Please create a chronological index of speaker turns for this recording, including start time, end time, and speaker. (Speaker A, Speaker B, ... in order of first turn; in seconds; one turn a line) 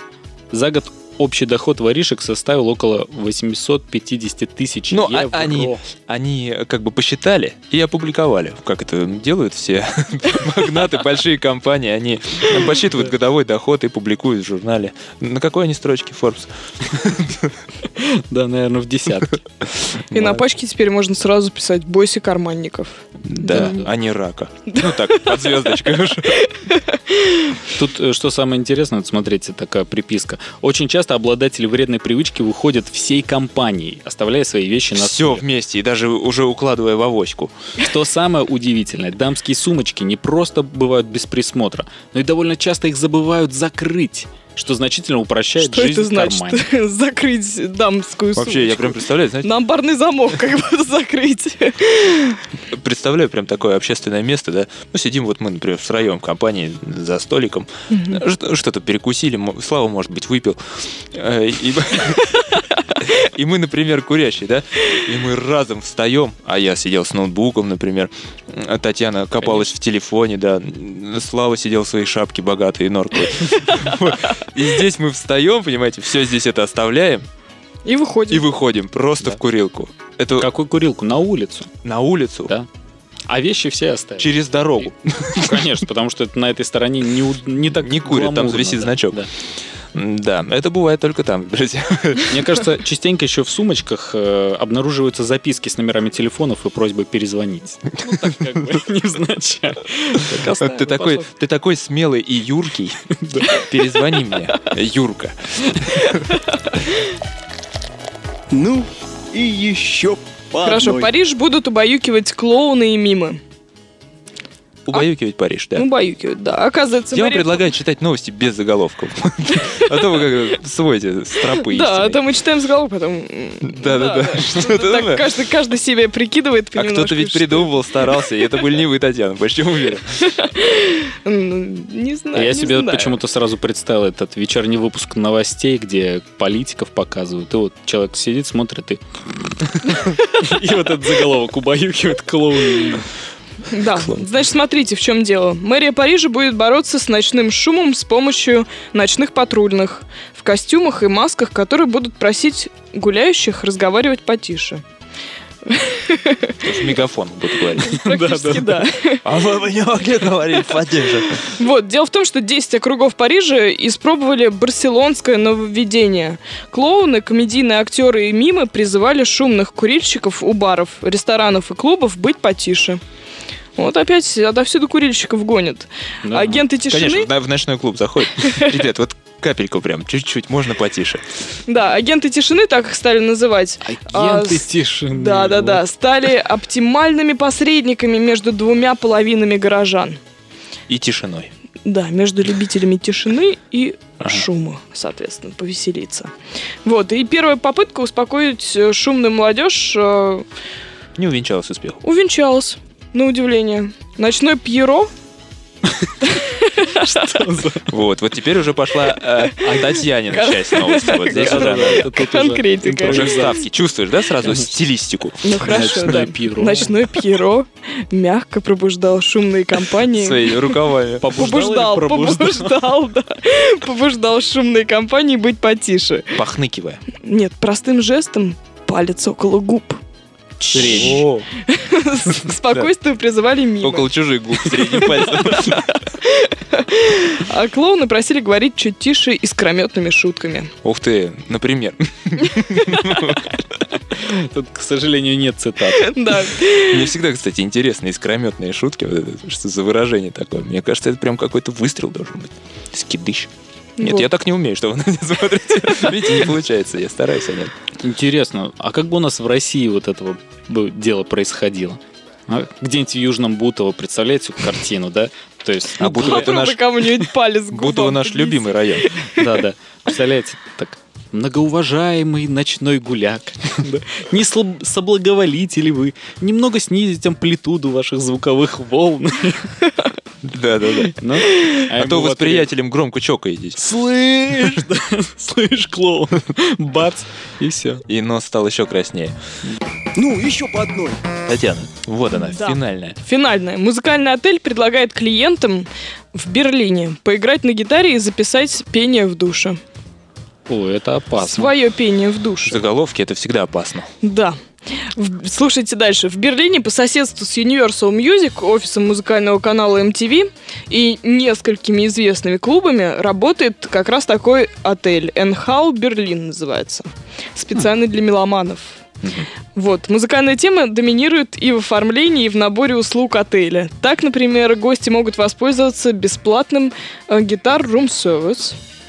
Speaker A: 0.5-5.8
Speaker B: 4.9-17.6
Speaker A: 18.0-19.5
Speaker C: 20.1-23.0
Speaker B: 20.1-20.4
Speaker B: 23.2-26.4
Speaker A: 23.5-23.9
Speaker C: 24.7-25.4
Speaker C: 26.3-27.6
Speaker A: 27.7-35.4
Speaker B: 35.0-37.5
Speaker A: 37.8-46.6
Speaker C: 45.6-52.4
Speaker B: 48.4-49.5
Speaker B: 52.7-77.3
Speaker C: 57.9-58.2
Speaker A: 69.4-69.7
Speaker C: 77.8-78.5
Speaker B: 78.3-80.5
Speaker A: 80.4-81.7
Speaker B: 81.8-82.5
Speaker A: 83.3-89.3
Speaker B: 84.2-85.8
Speaker B: 87.7-89.3
Speaker B: 89.9-92.6
Speaker A: 92.3-101.3
Speaker B: 98.2-98.6
Speaker B: 100.3-106.4
Speaker A: 103.1-103.5
Speaker D: 108.5-111.1
Speaker C: 110.6-113.4
Speaker B: 114.9-115.9
Speaker C: 115.8-117.7
Speaker B: 117.1-122.2
Speaker C: 121.4-128.5
Speaker B: 123.6-125.3
Speaker B: 126.8-130.3
Speaker C: 130.2-133.2
Speaker A: 132.3-143.1
Speaker C: 143.7-154.8
Speaker B: 144.0-144.3
Speaker C: 155.7-156.7
Speaker B: 156.6-158.0
Speaker C: 157.9-159.3
Speaker A: 158.0-158.9
Speaker B: 159.2-161.5
Speaker C: 161.6-173.0
Speaker C: 173.8-177.3
Speaker A: 176.2-176.6
Speaker B: 176.9-181.2
Speaker C: 178.4-178.8
Speaker C: 181.7-190.2
Speaker A: 183.8-185.8
Speaker B: 190.9-191.5
Speaker C: 191.8-196.3
Speaker C: 196.8-200.5
Speaker B: 201.2-202.0
Speaker C: 202.0-205.1
Speaker C: 206.2-207.6
Speaker A: 207.1-207.9
Speaker B: 207.9-212.1
Speaker C: 209.4-213.6
Speaker A: 209.6-209.9
Speaker A: 211.3-213.6
Speaker B: 213.0-216.2
Speaker C: 215.4-220.8
Speaker A: 215.7-216.9
Speaker B: 220.1-221.5
Speaker A: 221.2-222.8
Speaker C: 221.3-226.4
Speaker B: 226.3-227.0
Speaker C: 227.2-230.0
Speaker B: 230.7-231.5
Speaker A: 230.7-231.2
Speaker C: 230.7-234.1
Speaker B: 233.8-235.9
Speaker C: 234.7-240.7
Speaker B: 240.8-243.6
Speaker A: 244.1-246.1
Speaker C: 245.9-247.2
Speaker B: 246.6-257.7
Speaker C: 254.0-254.3
Speaker A: 258.0-266.5
Speaker B: 266.0-266.9
Speaker C: 266.2-269.3
Speaker B: 267.7-269.1
Speaker A: 269.4-279.8
Speaker B: 280.4-281.1
Speaker A: 281.2-282.7
Speaker B: 281.9-283.8
Speaker A: 283.8-288.0
Speaker B: 288.1-289.4
Speaker D: 290.2-291.2
Speaker B: 291.5-293.2
Speaker C: 292.3-299.8
Speaker A: 300.7-301.7
Speaker C: 301.4-302.8
Speaker B: 302.7-304.1
Speaker C: 304.2-319.0
Speaker B: 319.2-319.5
Speaker C: 319.8-328.8